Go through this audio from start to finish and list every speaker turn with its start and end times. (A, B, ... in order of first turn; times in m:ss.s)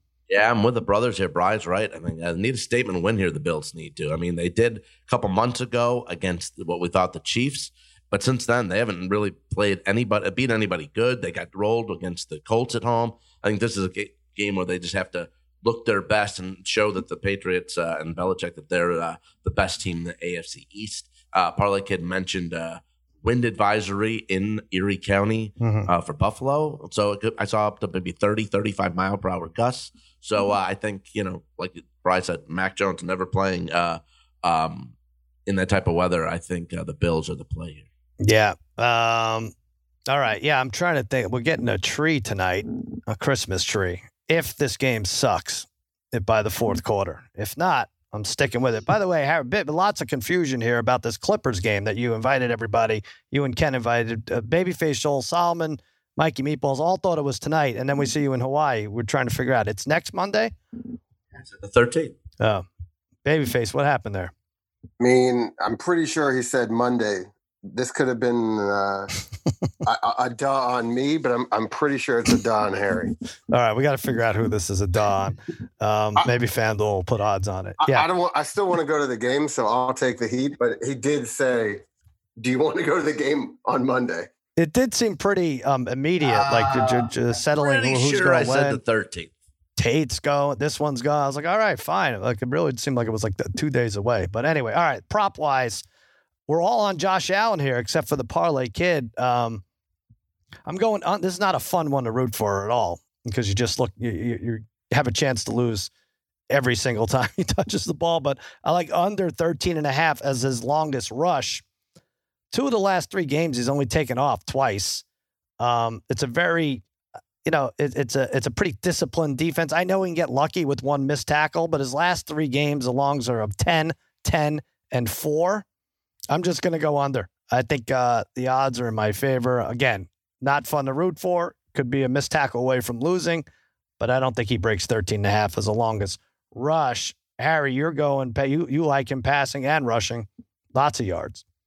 0:00.3-0:34.9 A
0:25.6-0:25.9 B
0:35.4-0:37.8 A
0:38.2-0:39.5 B
0:40.1-1:00.5 B
1:01.3-1:02.1 A
1:02.4-1:02.6 B
1:03.2-1:04.3 B
1:05.0-1:09.1 C
1:09.8-1:13.1 C
1:13.5-1:18.0 B
1:17.8-1:21.8 C
1:22.4-1:24.3 C
1:24.6-1:28.8 B
1:26.2-1:29.3 A
1:29.8-1:35.8 B
1:36.5-1:39.6 B
1:40.6-1:45.9 B
1:46.5-1:51.6 B
1:52.5-1:55.0 B
1:55.6-1:56.8 B
1:57.4-2:05.6 B
2:06.3-2:13.4 B
2:14.0-2:21.4 B